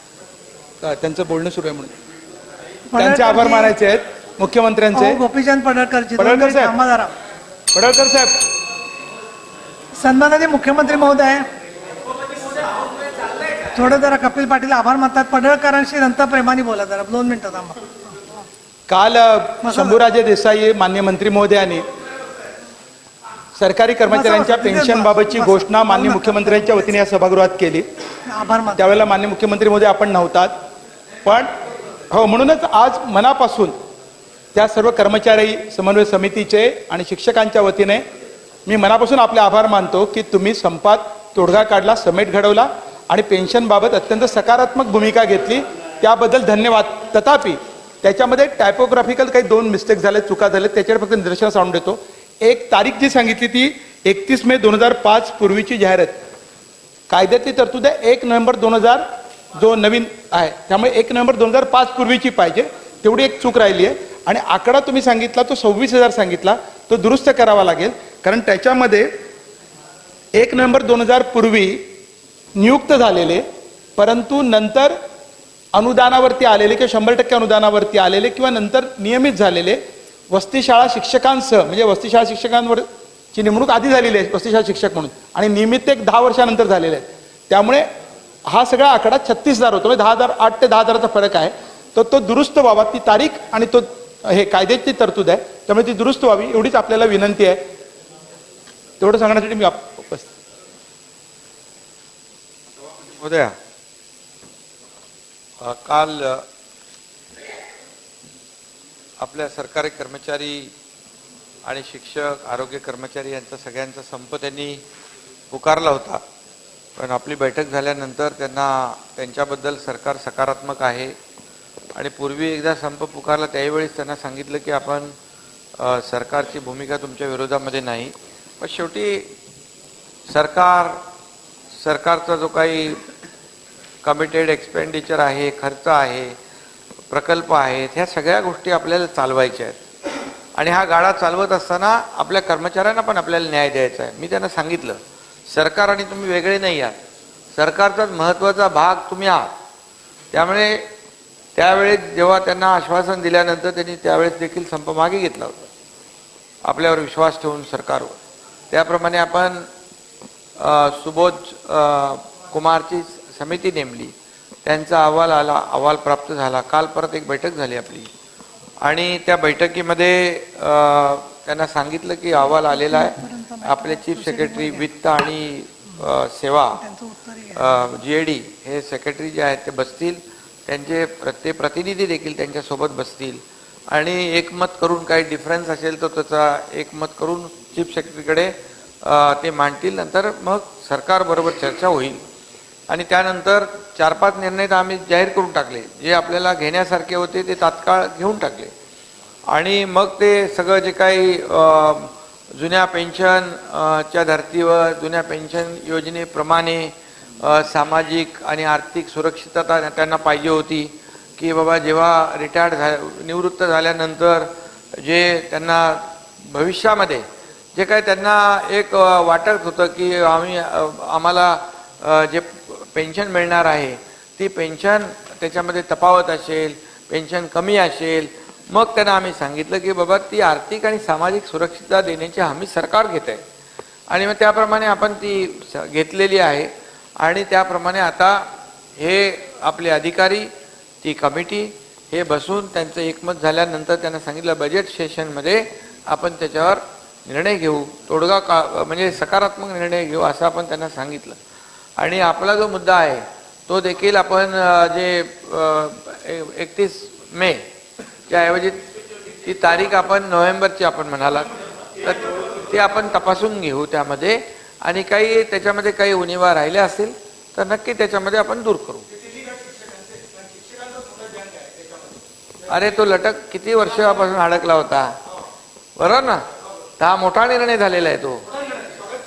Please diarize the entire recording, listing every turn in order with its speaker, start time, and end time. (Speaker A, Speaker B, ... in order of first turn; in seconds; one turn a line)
Speaker A: 0.8-1.9
Speaker B: 2.9-3.7
Speaker A: 3.0-5.2
Speaker B: 4.9-7.1
Speaker A: 6.2-6.7
Speaker A: 7.7-8.4
Speaker B: 10.0-11.5
Speaker B: 13.7-17.9
Speaker A: 18.9-21.8
Speaker B: 19.6-20.0
Speaker A: 23.6-27.9
Speaker B: 24.1-26.9
Speaker B: 28.3-28.9
Speaker A: 28.8-30.5
Speaker A: 32.1-33.8
Speaker A: 34.5-38.0
Speaker A: 38.7-56.2
Speaker A: 57.1-59.0
Speaker A: 59.5-69.1
Speaker A: 70.3-71.9
Speaker A: 72.6-73.4
Speaker A: 74.0-75.0
Speaker A: 75.7-79.8
Speaker A: 80.3-87.9
Speaker A: 88.5-97.6
Speaker A: 99.0-100.3
Speaker C: 103.0-103.6
Speaker C: 105.6-106.5
Speaker C: 109.2-110.7
Speaker C: 111.7-114.8
Speaker C: 115.5-116.2
Speaker C: 117.0-121.2
Speaker C: 122.0-125.1
Speaker C: 125.8-129.3
Speaker C: 130.3-131.0
Speaker C: 131.7-133.0
Speaker C: 134.0-136.3
Speaker C: 137.1-139.8
Speaker C: 140.6-145.0
Speaker C: 145.5-147.0
Speaker C: 147.6-149.5
Speaker C: 150.3-150.9
Speaker C: 151.6-155.7
Speaker C: 156.7-158.2
Speaker C: 158.7-159.7
Speaker C: 160.6-164.1
Speaker C: 164.7-168.1
Speaker C: 168.8-176.8
Speaker B: 172.4-174.9
Speaker B: 176.8-177.8
Speaker C: 177.6-192.2
Speaker C: 192.9-198.7
Speaker C: 199.5-233.4
Speaker C: 234.1-236.7
Speaker C: 237.2-240.5
Speaker C: 241.0-251.4
Speaker C: 252.0-257.6
Speaker C: 258.3-258.9
Speaker C: 259.4-269.1
Speaker A: 269.2-272.1
Speaker C: 272.7-275.2
Speaker C: 276.0-276.5
Speaker C: 277.0-278.5